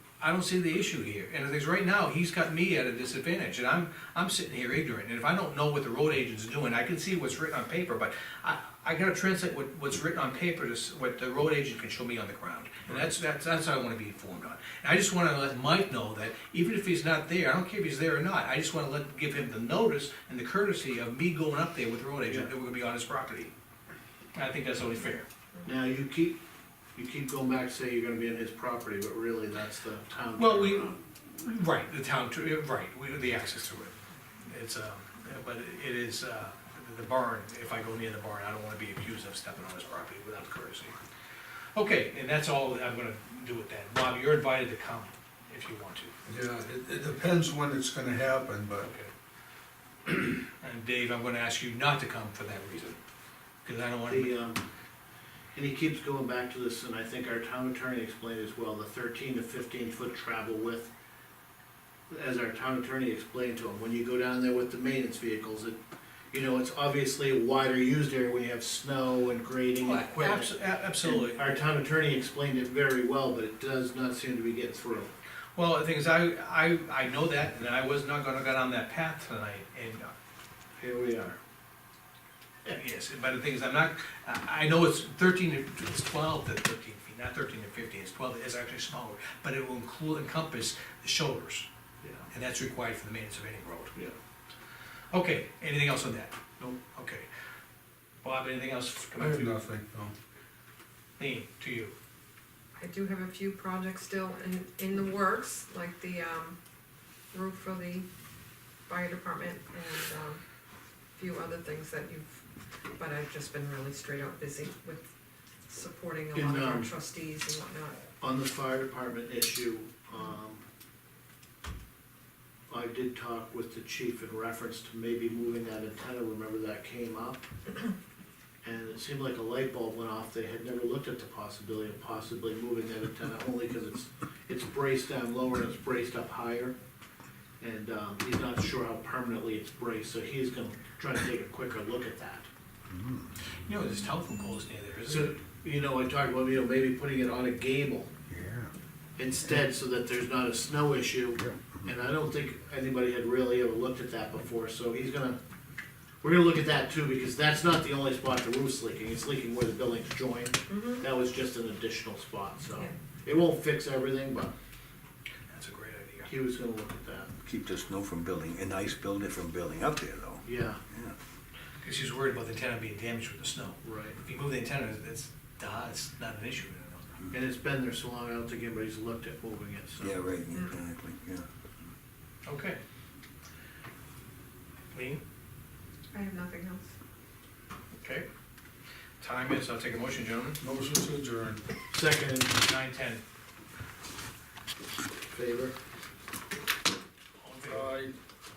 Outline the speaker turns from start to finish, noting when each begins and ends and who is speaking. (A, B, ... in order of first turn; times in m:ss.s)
0:00.2-0:23.5 A
0:24.3-0:25.2 A
0:25.6-0:26.4 B
0:27.0-0:30.9 B
0:30.4-0:41.0 A
0:41.7-0:46.1 A
0:46.2-0:48.9 C
0:48.8-0:49.1 A
0:50.0-0:53.0 A
0:53.6-0:54.3 A
0:54.1-0:54.6 B
0:55.5-1:00.9 B
1:02.1-1:05.8 B
1:06.3-1:15.1 B
1:09.8-1:11.4 A
1:15.6-1:20.1 A
1:20.8-1:21.4 B
1:22.7-1:31.7 A
1:32.0-1:32.3 B
1:32.3-1:34.0 A
1:35.1-1:37.3 A
1:38.2-1:39.6 A
1:39.2-1:40.1 C
1:41.2-1:41.9 A
1:42.8-1:46.6 D
1:47.3-1:48.1 D
1:48.9-1:50.4 D
1:51.2-1:52.4 D
1:53.0-1:55.0 D
1:55.7-1:58.0 D
1:56.3-1:56.9 B
1:58.2-2:00.6 B
2:02.7-2:07.5 B
2:08.6-2:16.7 B
2:17.6-2:22.5 B
2:22.9-2:23.3 E
2:23.6-2:25.4 A
2:25.1-2:28.1 B
2:28.3-2:28.7 E
2:29.2-2:35.4 B
2:31.4-2:31.9 E
2:36.2-2:44.5 B
2:40.7-2:41.0 D
2:45.5-2:46.3 A
2:46.2-2:47.3 B
2:47.4-2:51.2 E
2:50.4-2:50.8 B
2:51.8-2:57.1 A
2:53.8-2:54.2 B
2:57.3-3:00.2 B
3:00.0-3:01.5 E
3:02.4-3:02.8 A
3:04.9-3:05.2 A
3:06.1-3:06.9 D
3:08.0-3:08.3 A
3:09.2-3:10.6 A
3:10.6-3:11.6 C
3:11.9-3:12.5 B
3:12.6-3:13.2 A
3:15.3-3:15.7 B
3:17.4-3:18.0 A
3:17.7-3:18.1 C